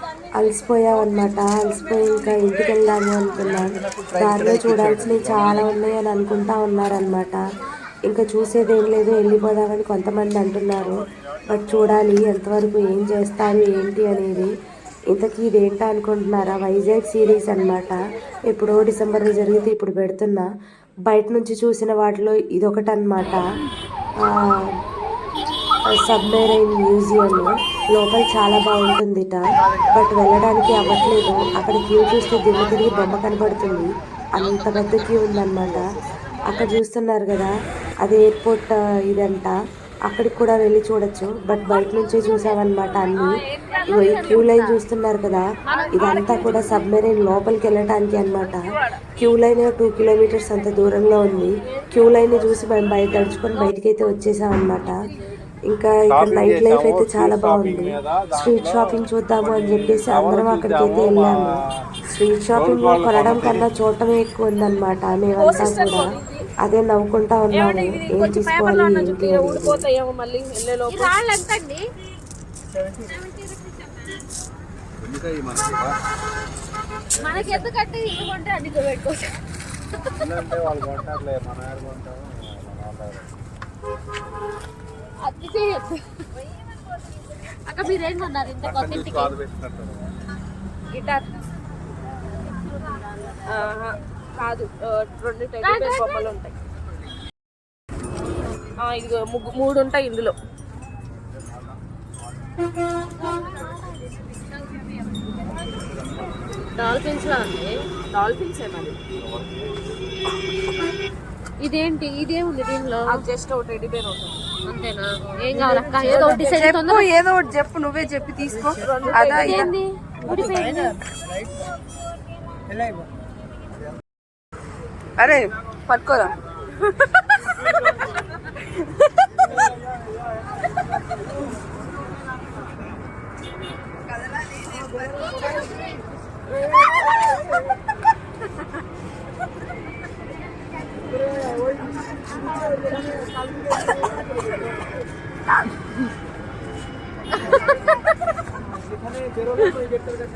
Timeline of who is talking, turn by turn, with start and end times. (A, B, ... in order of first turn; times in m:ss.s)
0:00.4-0:07.4 A
0:04.1-0:05.6 B
0:08.1-0:14.5 A
0:15.1-0:18.0 A
0:18.5-0:20.5 A
0:21.1-0:23.4 A
0:26.0-0:29.4 A
0:29.9-0:35.8 A
0:36.5-0:37.5 A
0:38.0-0:39.5 A
0:40.1-0:43.3 A
0:43.2-0:44.4 C
0:43.7-0:44.8 D
0:43.9-0:48.6 A
0:45.7-0:46.8 D
0:45.7-0:46.4 C
0:49.2-0:54.9 A
0:55.7-1:01.6 A
0:56.1-1:01.5 B
1:02.1-1:06.1 A
1:02.5-1:03.7 B
1:05.4-1:06.5 C
1:06.6-1:09.8 A
1:07.5-1:11.1 C
1:10.9-1:11.8 D
1:13.2-1:14.1 D
1:15.0-1:16.0 B
1:17.2-1:19.3 D
1:17.2-1:17.6 B
1:20.2-1:23.3 B
1:25.2-1:26.0 D
1:27.7-1:29.3 D
1:28.6-1:30.1 B
1:33.5-1:36.6 C
1:35.6-1:36.2 D
1:38.8-1:40.3 C
1:46.8-1:49.0 C
1:46.9-1:47.5 D
1:49.2-1:49.8 B
1:51.6-1:53.3 D
1:53.1-1:54.5 C
1:54.7-1:57.1 D
1:56.0-1:56.6 C
1:56.4-1:59.7 E
1:58.8-1:59.7 C
1:59.2-2:01.0 D
2:05.2-2:06.4 E
2:27.4-2:27.8 D